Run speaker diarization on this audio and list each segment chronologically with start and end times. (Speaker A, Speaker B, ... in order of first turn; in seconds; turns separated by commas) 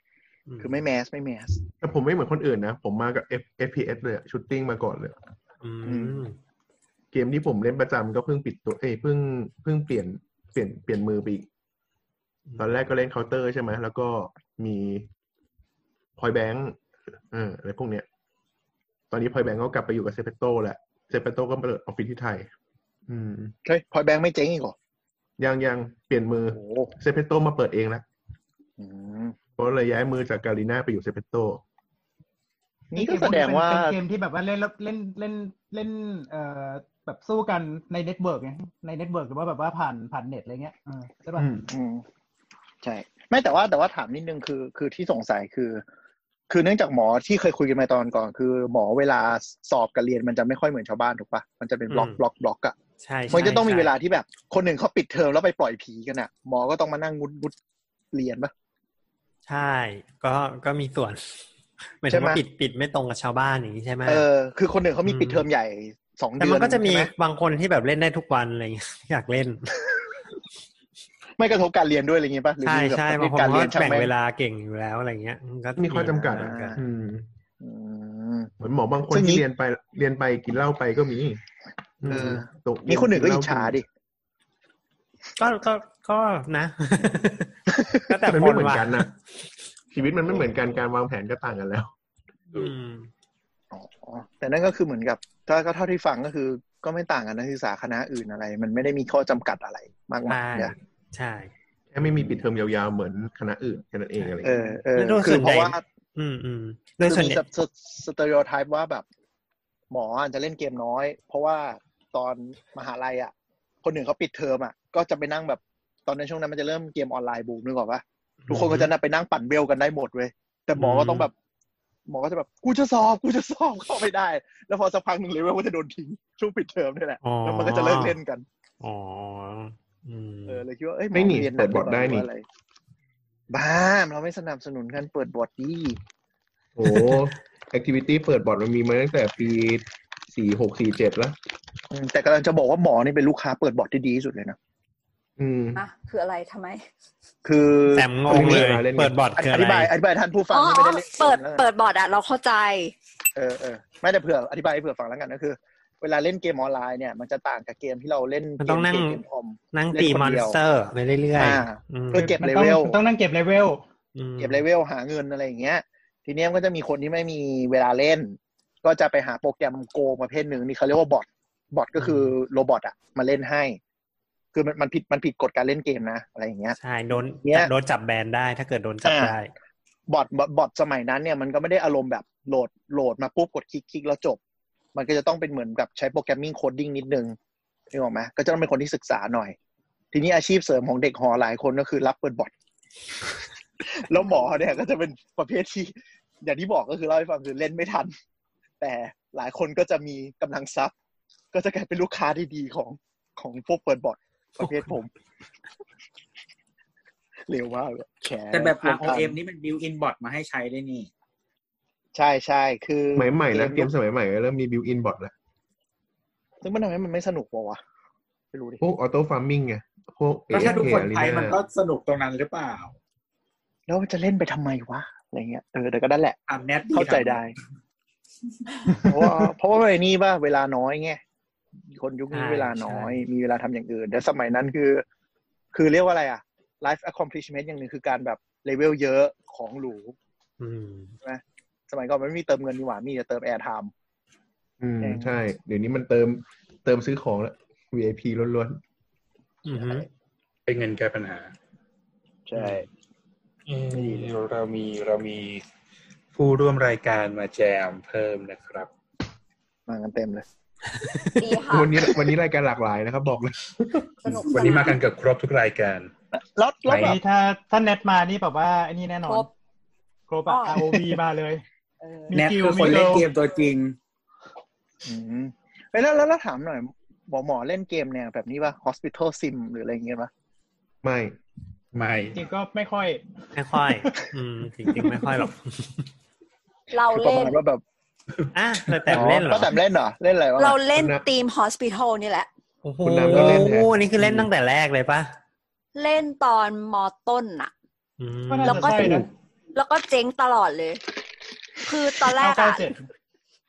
Speaker A: 0.5-0.8, Speaker B: 0.6-1.6, Speaker C: 1.8-5.2, Speaker A: 5.6-6.3, Speaker B: 5.8-6.2, Speaker C: 7.1-11.5, Speaker C: 12.6-15.1, Speaker C: 16.2-16.8, Speaker C: 17.3-18.1, Speaker C: 19.1-22.5, Speaker C: 23.1-23.5, Speaker B: 23.6-24.7, Speaker C: 25.4-28.0, Speaker B: 26.5-26.9, Speaker B: 28.8-29.4, Speaker C: 29.6-31.6, Speaker B: 32.9-34.0, Speaker D: 32.9-41.6, Speaker C: 41.4-41.6, Speaker B: 41.7-42.0, Speaker B: 42.8-45.8, Speaker B: 46.5-52.7, Speaker A: 51.9-52.2, Speaker A: 53.0-53.9, Speaker B: 53.3-57.5, Speaker B: 58.1-58.5, Speaker A: 59.5-61.4, Speaker A: 62.0-64.2, Speaker B: 62.1-62.4, Speaker B: 64.0-67.1, Speaker A: 65.0-65.5, Speaker A: 66.4-69.7, Speaker B: 71.4-74.1, Speaker A: 72.6-76.8, Speaker C: 75.8-77.3, Speaker B: 76.3-76.8, Speaker B: 77.6-78.5, Speaker C: 78.6-81.4, Speaker B: 79.1-79.4, Speaker C: 82.0-83.8, Speaker B: 82.0-83.8, Speaker A: 85.4-89.0, Speaker C: 88.2-89.1, Speaker C: 89.9-91.9, Speaker A: 92.5-93.1, Speaker B: 93.7-100.7, Speaker A: 100.3-101.5, Speaker C: 101.9-104.8, Speaker B: 104.4-105.8, Speaker A: 104.9-107.4, Speaker B: 107.1-109.0, Speaker B: 109.9-121.3, Speaker A: 118.5-118.9, Speaker A: 120.8-121.3, Speaker B: 122.1-128.4, Speaker A: 127.2-128.2, Speaker A: 128.8-130.6, Speaker B: 130.5-132.4, Speaker C: 131.1-132.3, Speaker B: 133.5-136.0, Speaker C: 136.8-141.3, Speaker B: 141.9-144.6, Speaker C: 145.4-145.8, Speaker E: 145.7-146.8, Speaker B: 147.4-148.7, Speaker A: 147.9-149.9, Speaker C: 148.3-149.2, Speaker B: 149.3-151.7, Speaker E: 150.5-152.9, Speaker B: 153.3-160.6, Speaker A: 158.6-159.2, Speaker A: 159.7-162.4, Speaker B: 161.4-163.0, Speaker D: 162.2-163.8, Speaker A: 164.1-164.6, Speaker B: 164.4-173.8, Speaker A: 172.0-172.3, Speaker B: 174.5-176.8, Speaker A: 176.8-179.5, Speaker B: 177.4-177.7, Speaker B: 179.0-179.3, Speaker B: 180.1-184.4, Speaker B: 184.9-187.3, Speaker B: 187.9-189.5, Speaker B: 190.1-192.5, Speaker B: 193.8-198.1, Speaker E: 194.2-194.8, Speaker B: 198.8-200.9, Speaker B: 201.5-205.1, Speaker B: 207.5-209.3, Speaker F: 208.5-211.1, Speaker B: 212.1-213.9, Speaker C: 213.2-215.3, Speaker B: 216.6-217.8, Speaker B: 218.5-218.8, Speaker C: 218.8-221.6, Speaker F: 220.5-222.9, Speaker B: 223.9-226.4, Speaker F: 226.5-227.4, Speaker B: 226.9-227.5, Speaker B: 229.0-231.2, Speaker B: 231.9-235.0, Speaker A: 232.3-233.2, Speaker B: 235.7-240.2, Speaker A: 240.6-241.2, Speaker B: 241.2-243.9, Speaker C: 244.8-248.8, Speaker B: 245.0-245.3, Speaker A: 249.6-250.1, Speaker B: 249.7-250.1, Speaker G: 250.7-251.5, Speaker B: 252.5-252.9, Speaker G: 253.7-255.6, Speaker B: 253.9-254.3, Speaker G: 256.3-258.9, Speaker B: 259.9-260.4, Speaker A: 261.0-261.4, Speaker E: 261.4-262.0, Speaker C: 261.7-264.1, Speaker E: 264.2-265.0, Speaker G: 264.3-266.1, Speaker B: 266.3-267.2, Speaker G: 266.9-267.1, Speaker D: 266.9-269.5, Speaker D: 270.3-271.6, Speaker E: 270.4-270.9, Speaker E: 272.0-272.4, Speaker D: 272.3-273.3, Speaker F: 272.3-274.0, Speaker B: 275.0-280.3, Speaker C: 281.0-281.4, Speaker G: 281.9-282.4, Speaker D: 282.3-283.2, Speaker A: 283.5-286.1, Speaker E: 286.9-287.6, Speaker B: 287.1-287.8, Speaker A: 288.5-289.7, Speaker B: 289.1-290.8, Speaker E: 290.6-292.5, Speaker C: 290.9-291.2, Speaker A: 292.8-295.3, Speaker C: 293.0-294.4, Speaker E: 295.9-297.7, Speaker A: 298.2-299.2, Speaker D: 298.5-299.3, Speaker E: 298.6-301.0, Speaker E: 301.8-302.9, Speaker D: 302.3-303.0